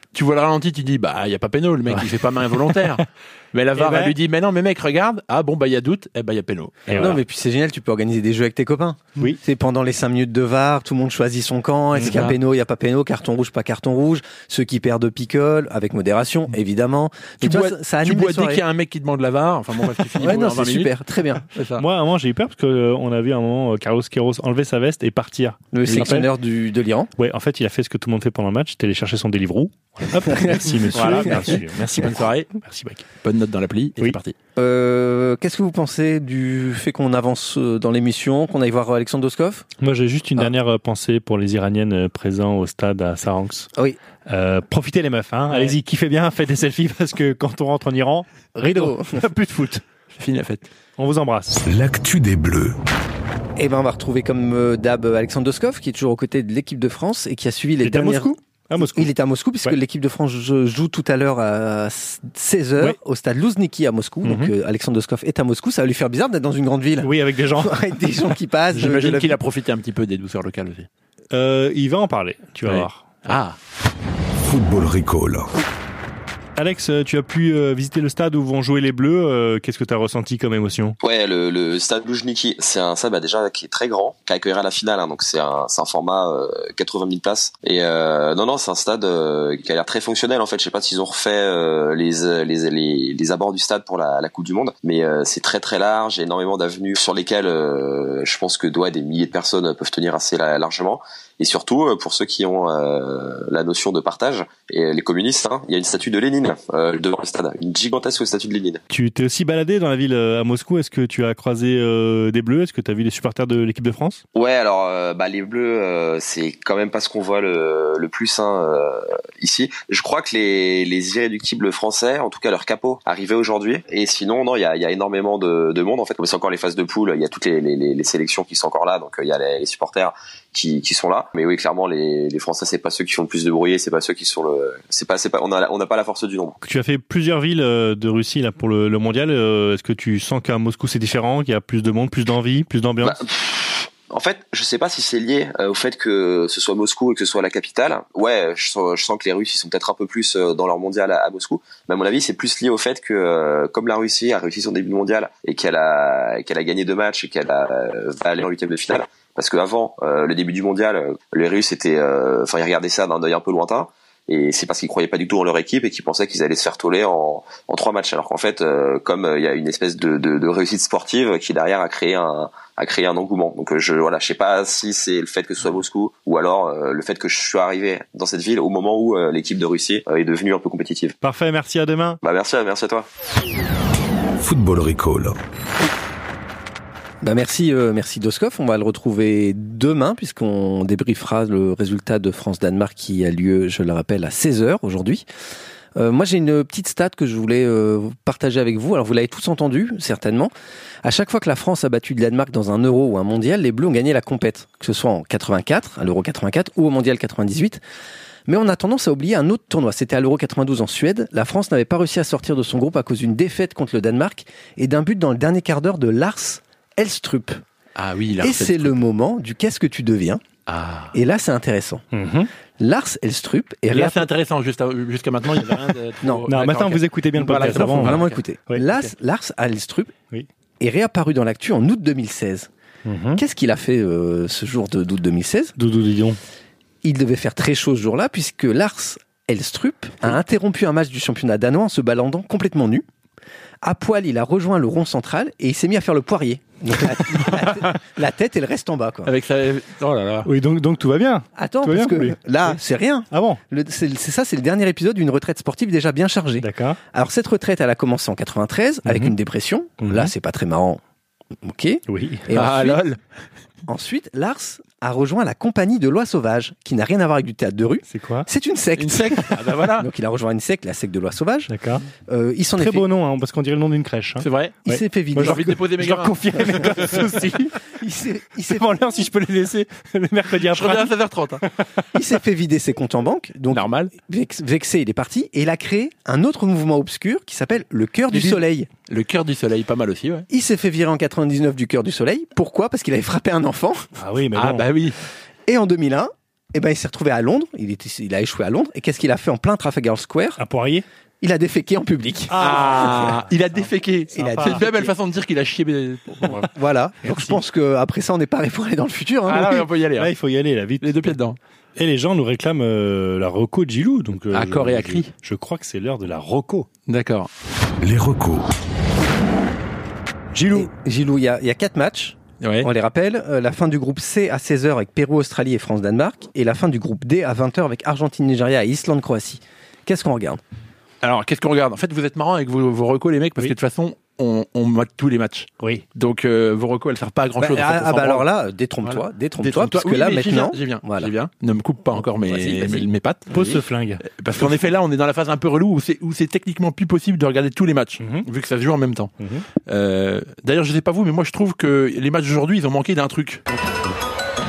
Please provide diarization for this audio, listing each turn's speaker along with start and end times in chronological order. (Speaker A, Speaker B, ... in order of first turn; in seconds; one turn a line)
Speaker A: 0.1-7.2
Speaker B: 3.8-4.2
Speaker B: 6.9-7.2
Speaker C: 7.0-18.6
Speaker A: 12.0-12.4
Speaker A: 17.4-20.9
Speaker C: 20.2-21.5
Speaker A: 21.5-21.8
Speaker B: 21.8-26.3
Speaker C: 25.7-27.1
Speaker B: 27.2-33.0
Speaker C: 30.3-31.3
Speaker A: 30.9-32.5
Speaker A: 33.2-34.3
Speaker C: 34.6-39.7
Speaker B: 39.8-43.7
Speaker B: 44.3-49.8
Speaker C: 48.6-49.2
Speaker A: 50.1-50.7
Speaker B: 51.0-51.6
Speaker D: 51.7-52.8
Speaker C: 53.6-69.4
Speaker B: 57.8-59.1
Speaker B: 64.2-64.5
Speaker B: 67.0-67.8
Speaker A: 68.7-70.9
Speaker B: 71.3-73.0
Speaker A: 72.7-73.6
Speaker D: 74.4-75.5
Speaker B: 76.6-81.0
Speaker E: 81.0-108.8
Speaker B: 108.9-114.2
Speaker E: 114.3-136.6
Speaker B: 136.6-143.2
Speaker E: 143.0-181.2
Speaker B: 181.2-182.2
Speaker E: 182.2-183.1
Speaker D: 184.4-185.4
Speaker C: 187.2-195.2
Speaker C: 196.0-200.5
Speaker C: 201.0-207.8
Speaker C: 208.5-217.6
Speaker A: 218.0-219.0
Speaker C: 218.4-220.4
Speaker A: 220.7-221.2
Speaker C: 221.1-222.1
Speaker B: 222.1-222.5
Speaker C: 222.8-224.3
Speaker A: 223.9-228.4
Speaker B: 226.5-228.8
Speaker C: 227.5-230.1
Speaker C: 230.8-232.7
Speaker B: 233.1-233.4
Speaker C: 233.4-235.8
Speaker B: 235.8-236.4
Speaker C: 237.0-243.1
Speaker C: 243.8-249.3
Speaker A: 249.3-250.5
Speaker B: 250.4-252.8
Speaker C: 251.6-261.0
Speaker B: 253.3-253.6
Speaker B: 256.6-257.0
Speaker B: 259.1-259.4
Speaker B: 260.0-260.3
Speaker C: 261.6-263.0
Speaker B: 262.1-262.5
Speaker A: 262.5-263.2
Speaker C: 263.9-271.7
Speaker B: 268.1-268.5
Speaker A: 269.0-270.1
Speaker B: 271.7-272.1
Speaker C: 272.2-273.1
Speaker B: 272.8-277.8
Speaker A: 274.4-274.8
Speaker C: 274.9-275.8
Speaker A: 275.4-277.0
Speaker C: 276.7-277.2
Speaker C: 277.8-279.0
Speaker B: 278.7-281.1
Speaker A: 280.7-281.6
Speaker C: 282.1-288.9
Speaker A: 283.7-284.1
Speaker A: 288.3-290.5
Speaker C: 290.5-294.1
Speaker B: 294.2-294.9
Speaker A: 294.6-295.2
Speaker C: 295.7-300.6
Speaker B: 300.6-301.1
Speaker C: 301.4-303.3
Speaker B: 302.5-303.5
Speaker A: 302.6-306.7
Speaker B: 304.3-304.9
Speaker C: 304.4-305.1
Speaker C: 306.7-309.9
Speaker B: 307.2-307.6
Speaker A: 309.5-310.3
Speaker B: 310.2-311.1
Speaker A: 311.0-311.6
Speaker B: 312.0-316.9
Speaker A: 314.5-315.3
Speaker A: 317.1-317.5
Speaker D: 318.0-318.7
Speaker B: 320.5-320.9
Speaker C: 320.7-330.6
Speaker A: 322.6-322.9
Speaker A: 331.2-338.5
Speaker C: 337.6-341.3
Speaker A: 339.0-343.5
Speaker C: 342.4-343.8
Speaker B: 343.5-344.2
Speaker A: 344.2-349.3
Speaker B: 348.2-348.5
Speaker B: 349.4-349.7
Speaker A: 349.9-353.6